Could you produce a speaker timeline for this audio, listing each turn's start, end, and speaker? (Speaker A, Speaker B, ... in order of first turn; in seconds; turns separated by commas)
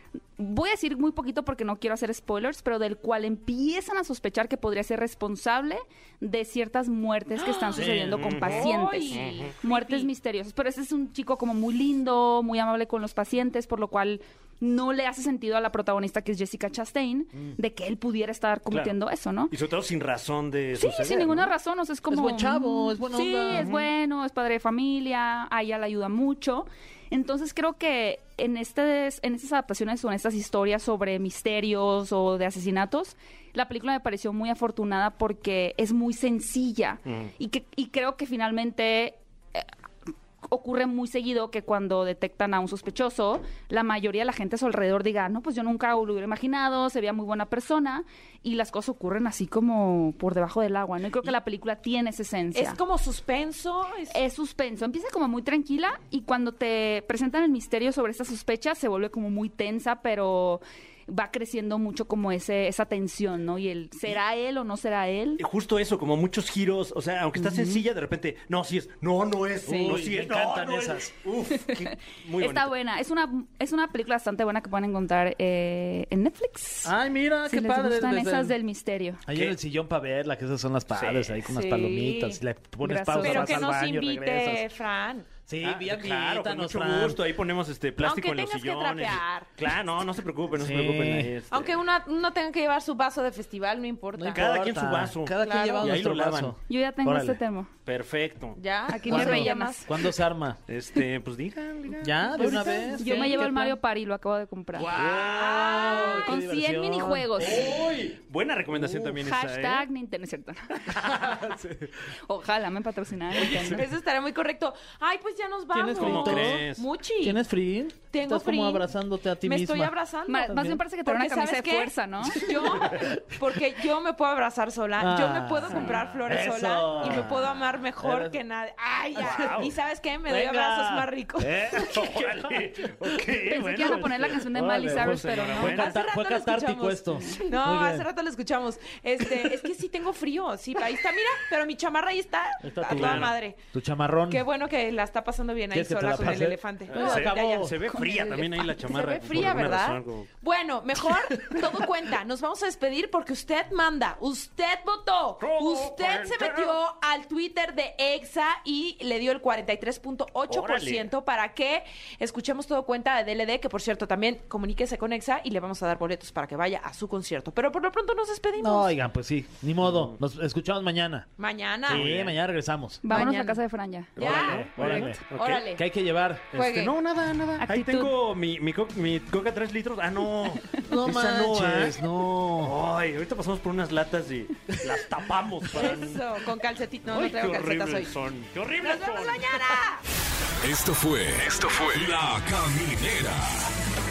Speaker A: 0.4-19.5, Speaker B: 7.3-7.8, Speaker C: 7.8-9.5, Speaker D: 7.8-8.3, Speaker B: 8.4-10.1, Speaker C: 18.7-18.9, Speaker C: 19.5-21.5, Speaker A: 20.8-39.7, Speaker D: 22.1-23.7, Speaker C: 23.5-23.8, Speaker C: 37.1-37.3, Speaker A: 40.5-52.8, Speaker B: 52.5-54.2, Speaker A: 54.1-65.4, Speaker C: 65.4-72.7, Speaker D: 67.4-67.8, Speaker D: 69.6-71.1, Speaker A: 71.5-79.2, Speaker D: 76.8-78.5, Speaker D: 79.2-84.7, Speaker C: 80.9-81.5, Speaker B: 81.5-82.4, Speaker A: 82.8-83.6, Speaker B: 83.2-85.2, Speaker D: 85.5-87.2, Speaker C: 85.6-91.8, Speaker B: 88.0-89.5, Speaker D: 90.5-91.3, Speaker B: 91.5-94.4, Speaker D: 94.1-97.4, Speaker C: 94.3-96.6, Speaker B: 95.4-95.9, Speaker A: 96.7-97.7, Speaker C: 97.8-98.6, Speaker B: 98.5-99.9, Speaker A: 98.9-100.0, Speaker D: 99.0-100.6, Speaker C: 100.7-103.0, Speaker D: 102.0-103.8, Speaker B: 102.3-103.6, Speaker A: 102.9-104.9, Speaker C: 104.8-106.1, Speaker D: 104.8-108.1, Speaker B: 105.0-106.3, Speaker A: 106.2-107.7, Speaker C: 107.4-109.8, Speaker D: 108.7-109.2, Speaker A: 109.2-111.0, Speaker D: 110.9-111.9, Speaker A: 112.3-113.8, Speaker B: 113.7-117.4, Speaker D: 115.7-119.9, Speaker C: 116.0-116.8, Speaker B: 118.1-118.9, Speaker B: 119.4-132.0, Speaker A: 120.3-122.6, Speaker D: 120.5-120.8, Speaker D: 122.8-123.5, Speaker D: 125.0-128.4, Speaker C: 125.7-126.0, Speaker C: 127.0-127.4, Speaker D: 129.2-129.7, Speaker C: 129.2-129.7, Speaker D: 130.2-138.1, Speaker C: 131.8-135.9, Speaker A: 133.4-135.9, Speaker B: 135.6-143.6, Speaker D: 142.6-144.4, Speaker C: 142.8-143.3, Speaker B: 144.3-147.7, Speaker D: 145.7-147.8, Speaker C: 146.2-150.3, Speaker A: 147.9-148.5, Speaker B: 148.7-168.9, Speaker C: 155.4-156.8, Speaker C: 160.5-161.1, Speaker D: 168.6-171.3, Speaker C: 169.8-170.2, Speaker B: 171.4-172.1, Speaker D: 171.9-173.1, Speaker C: 171.9-172.4, Speaker A: 173.0-174.1, Speaker B: 173.1-173.6, Speaker B: 174.1-175.8, Speaker C: 174.2-175.6, Speaker D: 174.2-176.5, Speaker B: 176.5-176.9, Speaker C: 176.5-186.4, Speaker A: 177.6-178.1, Speaker D: 180.8-182.8, Speaker B: 185.7-188.1, Speaker C: 187.1-189.8, Speaker B: 188.8-190.0, Speaker E: 190.6-193.7, Speaker C: 191.4-192.8